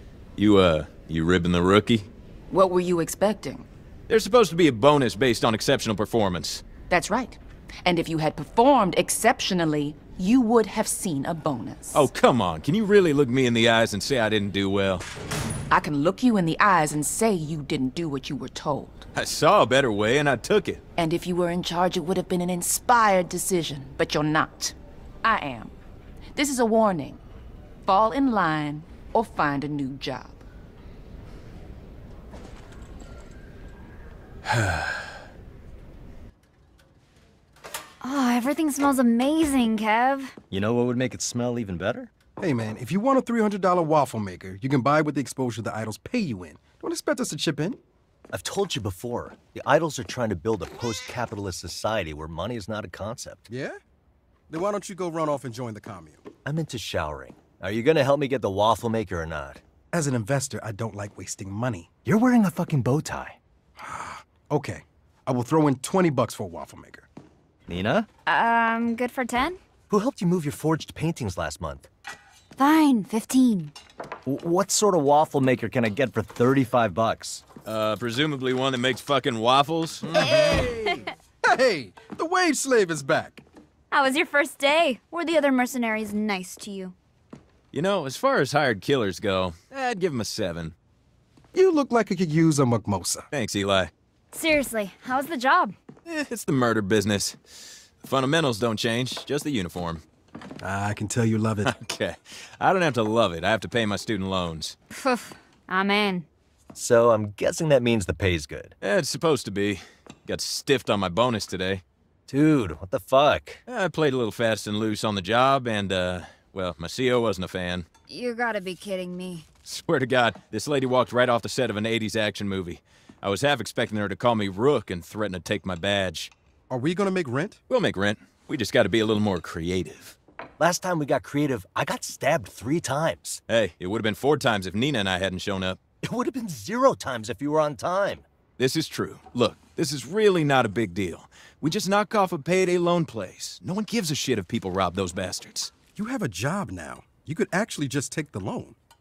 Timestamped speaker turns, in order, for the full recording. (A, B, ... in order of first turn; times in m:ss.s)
0:00.4-0:02.1 A
0:02.5-0:03.7 B
0:04.1-0:06.6 A
0:06.9-0:12.1 B
0:11.9-0:15.1 A
0:15.7-0:19.1 B
0:19.1-0:20.8 A
0:21.0-0:25.7 B
0:26.4-0:27.2 B
0:27.8-0:30.4 B
0:38.0-0:40.4 C
0:40.5-0:42.1 D
0:42.4-0:47.8 E
0:48.3-0:53.4 D
0:53.5-0:53.8 E
0:54.5-0:56.2 E
0:56.4-0:59.6 D
0:59.9-1:01.9 E
1:02.0-1:03.4 D
1:03.8-1:07.1 E
1:07.7-1:08.1 D
1:08.3-1:09.6 C
1:09.9-1:11.9 D
1:12.6-1:13.7 C
1:14.3-1:17.4 D
1:17.7-1:20.2 A
1:20.2-1:21.1 C
1:20.2-1:23.4 E
1:23.9-1:26.9 C
1:27.7-1:30.8 A
1:31.5-1:33.3 E
1:33.3-1:33.9 A
1:34.3-1:35.8 C
1:36.1-1:40.0 A
1:40.6-1:41.8 E
1:41.6-1:44.8 A
1:44.9-1:46.3 C
1:46.8-1:48.8 D
1:48.8-1:51.8 A
1:52.3-1:53.6 D
1:53.7-1:57.9 A
1:58.1-1:59.5 C
1:59.7-2:06.3 A
2:06.7-2:07.6 E
2:07.7-2:10.2 A
2:10.6-2:13.4 D
2:13.5-2:15.8 A
2:16.0-2:18.2 D
2:18.6-2:25.7 A
2:26.0-2:28.8 E